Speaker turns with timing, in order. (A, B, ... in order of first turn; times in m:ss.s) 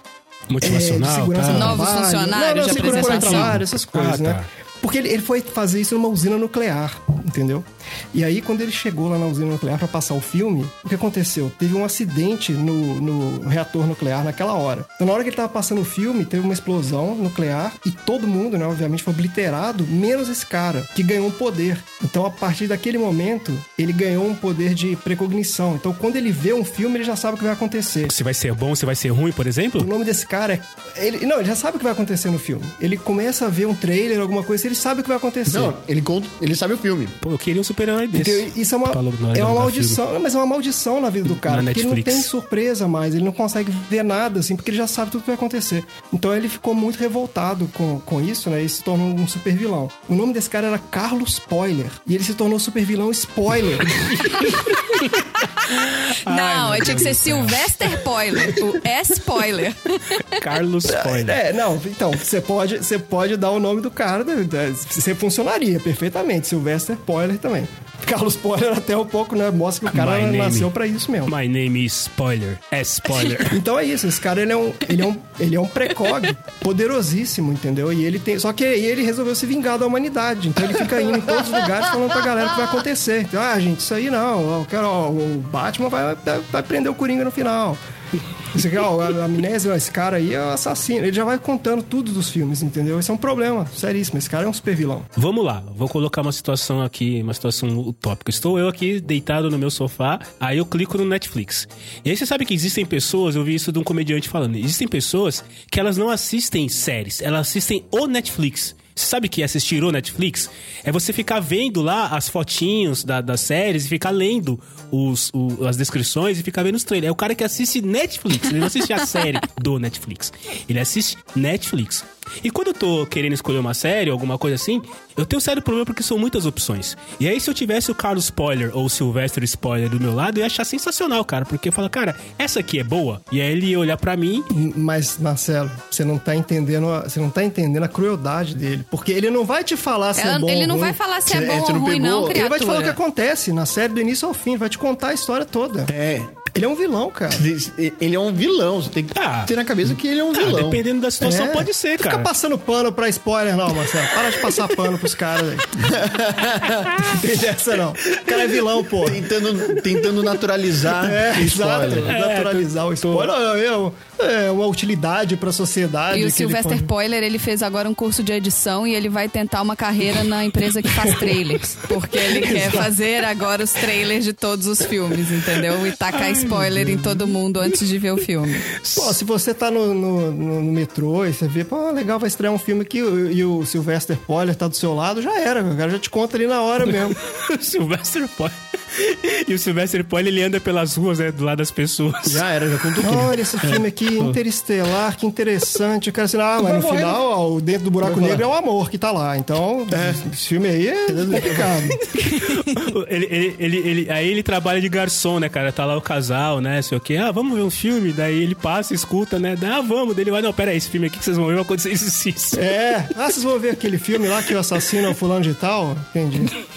0:00.5-0:01.9 A
0:00.6-0:28.1 B
0:01.5-0:03.6 C
0:02.6-0:04.5 A
0:28.1-0:29.9 A
0:29.8-0:35.8 B
0:35.5-0:37.2 D
0:37.2-0:40.0 A
0:38.1-0:54.5 B
0:41.4-0:42.3 A
0:55.4-0:55.6 C
0:55.8-0:58.0 A
0:56.2-1:00.4 C
1:00.3-1:01.4 A
1:00.9-1:11.3 B
1:09.9-1:10.7 A
1:11.3-1:13.6 A
1:13.5-1:27.8 B
1:28.5-1:35.1 B
1:35.2-2:14.5 A
2:14.5-2:21.2 B
2:20.2-2:23.0 C
2:21.3-2:22.4 D
2:22.3-2:25.9 B
2:25.9-2:26.4 D
2:26.5-2:27.5 B
2:27.3-2:30.8 D
2:29.2-2:29.5 A
2:30.3-2:32.3 A
2:31.2-2:35.7 B
2:35.8-2:37.1 D
2:37.0-2:39.3 B
2:39.0-2:42.1 D
2:40.9-2:46.9 B
2:41.9-2:43.3 A
2:46.1-2:58.7 C
2:52.2-2:52.9 B
2:56.1-2:57.3 A
2:58.8-2:59.2 A
2:58.9-3:07.2 B
3:07.3-3:12.4 A
3:12.2-3:13.8 D
3:13.0-3:22.0 B
3:16.6-3:17.2 D
3:18.0-3:18.4 D
3:19.9-3:20.2 D
3:21.1-3:21.9 D
3:22.2-3:32.6 A
3:32.5-3:36.6 B